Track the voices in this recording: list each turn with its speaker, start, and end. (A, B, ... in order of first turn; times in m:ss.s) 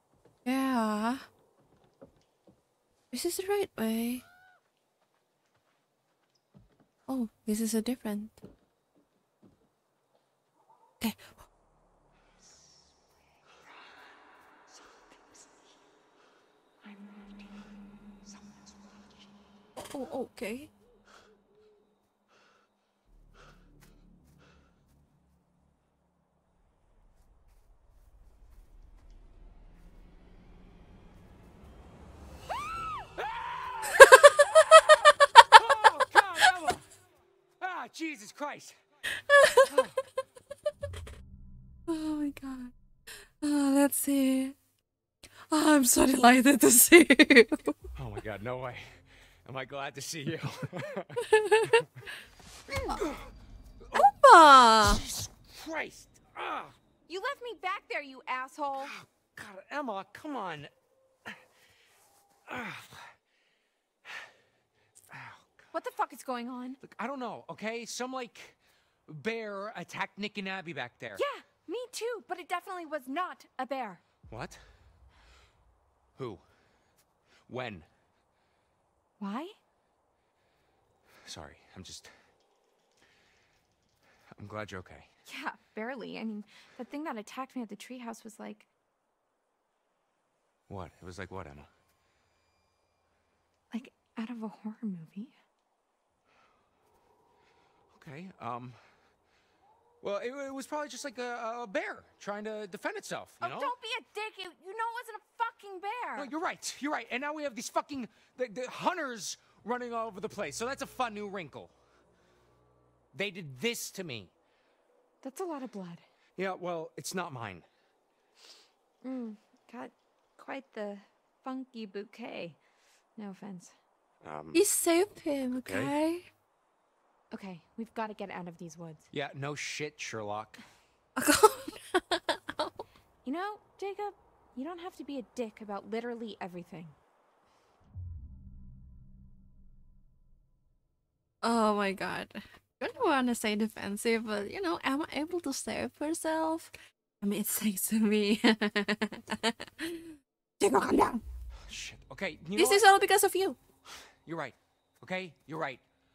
0:00.4-0:01.3 A
0:03.1-0:04.2 A
0:07.1-0:08.4 A
0:11.0-0:11.4 A
0:16.9-0:17.5 B
0:18.3-0:18.7 C
0:19.8-0:20.7 A
0:33.2-0:35.0 C
0:34.0-0:34.3 A
0:35.5-0:36.8 C
0:37.6-0:38.8 C
0:39.3-0:39.7 A
0:39.7-0:40.0 C
0:41.9-0:44.6 A
0:45.5-0:47.8 A
0:48.0-0:51.9 C
0:51.2-0:51.8 A
0:53.0-0:53.3 C
0:53.8-0:54.1 C
0:53.9-0:55.0 A
0:54.8-0:56.8 C
0:57.1-0:58.9 B
0:58.8-1:00.7 C
1:02.5-1:03.1 C
1:05.1-1:05.7 C
1:05.7-1:06.8 B
1:06.8-1:11.2 C
1:11.2-1:14.0 B
1:14.3-1:14.6 C
1:16.2-1:16.4 C
1:17.5-1:17.9 C
1:19.2-1:19.6 B
1:21.2-1:22.1 C
1:24.4-1:25.1 C
1:25.3-1:28.7 B
1:30.7-1:31.7 C
1:33.7-1:35.4 B
1:37.9-1:39.0 C
1:40.0-1:43.8 C
1:43.4-1:46.3 B
1:46.2-1:51.7 C
1:53.1-1:54.3 C
1:55.2-1:56.0 B
1:56.4-1:57.7 C
1:59.0-2:02.6 B
2:03.2-2:03.8 B
2:04.2-2:04.6 C
2:04.5-2:06.3 A
2:05.6-2:05.9 C
2:07.3-2:09.1 B
2:09.1-2:10.6 C
2:11.2-2:12.8 A
2:13.2-2:17.0 B
2:21.4-2:31.2 A
2:31.7-2:32.9 C
2:32.6-2:33.6 A
2:34.2-2:35.8 C